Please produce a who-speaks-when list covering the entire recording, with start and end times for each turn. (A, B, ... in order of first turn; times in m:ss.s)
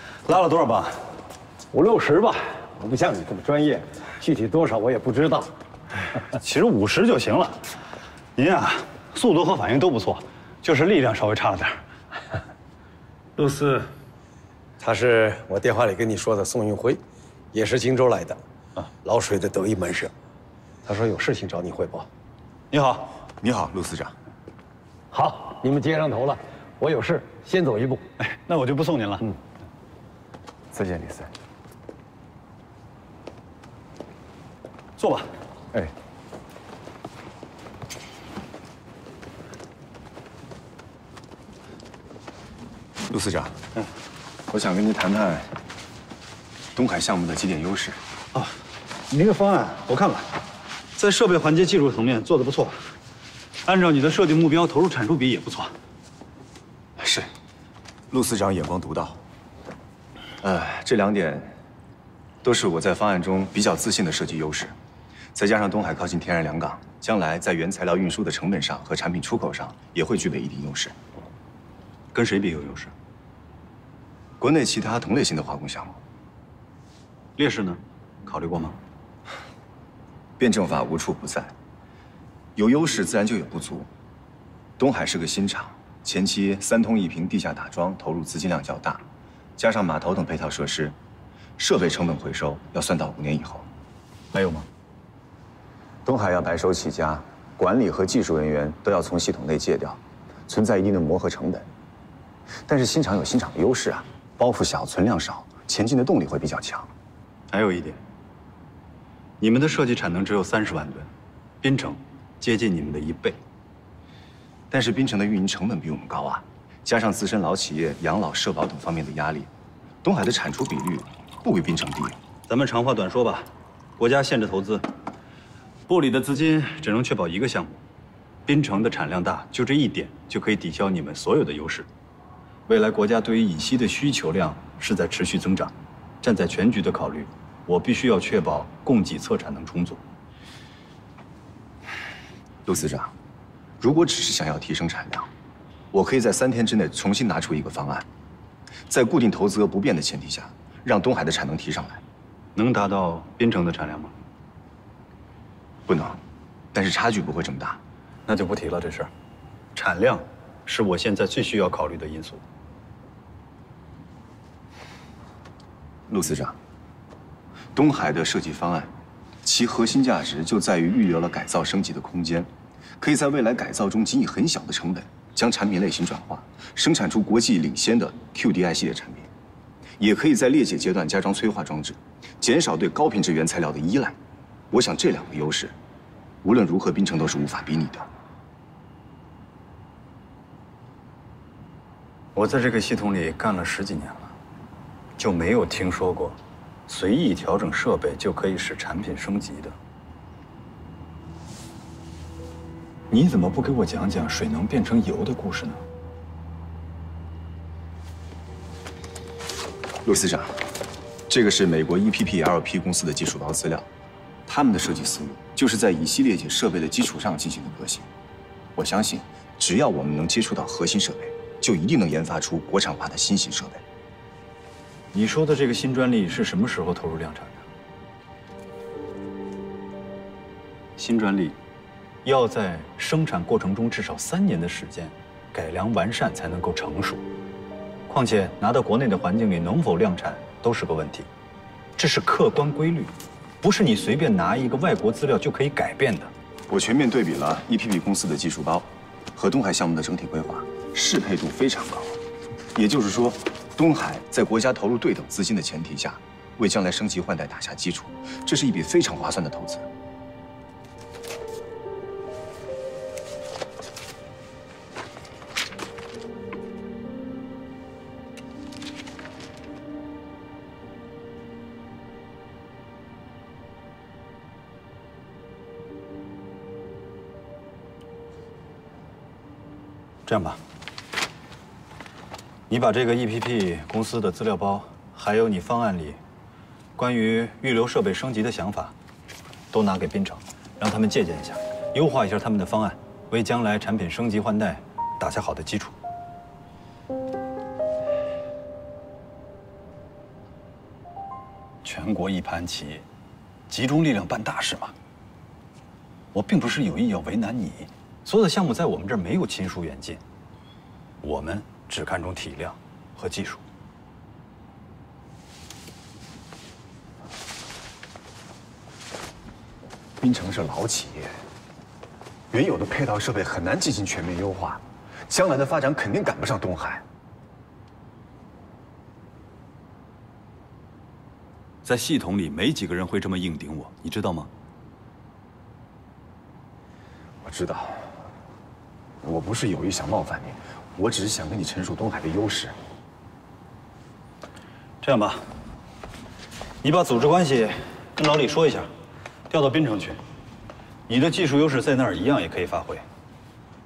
0:00.2-0:01.0 A
0:01.7-0:05.5 B
0:06.4-0:07.6 A
0:08.4-0:11.8 A
0:14.8-0:17.0 C
0:17.5-0:18.4 C
0:19.0-0:20.1 C
0:20.8-0:22.1 C
0:22.7-0:23.1 A
0:23.4-0:24.1 D
0:25.1-0:28.0 B
0:28.2-0:29.2 A
0:30.7-0:31.3 D
0:35.0-0:35.3 A
0:43.1-0:43.6 D
0:44.5-0:45.5 D
0:46.7-0:48.0 D
0:49.1-0:50.3 A
0:51.0-0:52.8 A
0:53.6-0:55.7 A
0:57.0-0:57.3 D
0:58.1-0:59.2 D
1:00.4-1:01.6 D
1:02.4-1:04.7 D
1:05.3-1:11.0 D
1:12.1-1:12.9 A
1:14.4-1:16.0 D
1:17.4-1:18.8 A
1:20.4-1:21.5 D
1:22.6-1:23.9 D
1:24.8-1:29.0 D
1:29.6-1:31.0 D
1:31.6-1:33.7 D
1:34.3-1:34.7 A
1:36.0-1:41.7 D
1:42.6-1:46.9 D
1:47.5-1:48.0 A
1:49.4-1:51.1 A
1:51.6-1:53.4 A
1:54.7-1:59.5 D
2:00.0-2:02.2 D
2:02.5-2:04.8 A
2:05.9-2:07.8 A
2:08.5-2:11.9 A
2:12.7-2:20.0 A
2:22.6-2:23.1 D
2:23.8-2:25.3 D
2:25.9-2:28.1 D
2:28.9-2:32.0 D
2:32.6-2:34.1 A
2:35.9-2:36.2 D
2:36.7-2:37.8 D
2:38.3-2:39.1 A
2:39.8-2:42.4 A
2:46.1-2:46.6 D
2:47.7-2:48.9 D
2:49.4-2:59.3 D
3:00.0-3:04.2 D
3:04.7-3:05.7 D
3:06.4-3:08.1 D
3:12.3-3:14.3 A
3:15.2-3:19.8 A
3:23.1-3:25.8 A
3:30.0-3:30.5 D
3:31.3-3:33.9 D
3:34.5-3:38.1 D
3:38.8-3:43.8 D
3:45.1-3:47.6 A
3:51.0-3:51.6 A
3:52.2-3:57.2 A
3:58.1-4:01.3 A
4:02.0-4:06.3 A
4:06.7-4:12.2 D
4:12.7-4:19.9 D
4:40.3-4:40.6 A
4:42.7-4:46.2 A
4:47.0-4:48.9 A
4:49.7-4:55.9 A
5:01.8-5:03.0 A
5:03.7-5:04.9 A
5:06.3-5:10.2 A
5:11.2-5:13.6 A
5:20.2-5:21.4 D
5:22.5-5:27.0 D
5:31.8-5:34.5 A
5:37.4-5:38.1 D
5:39.2-5:42.8 D
5:45.0-5:45.4 A
5:46.8-5:48.9 A
5:49.5-5:50.2 A
5:51.1-5:53.0 A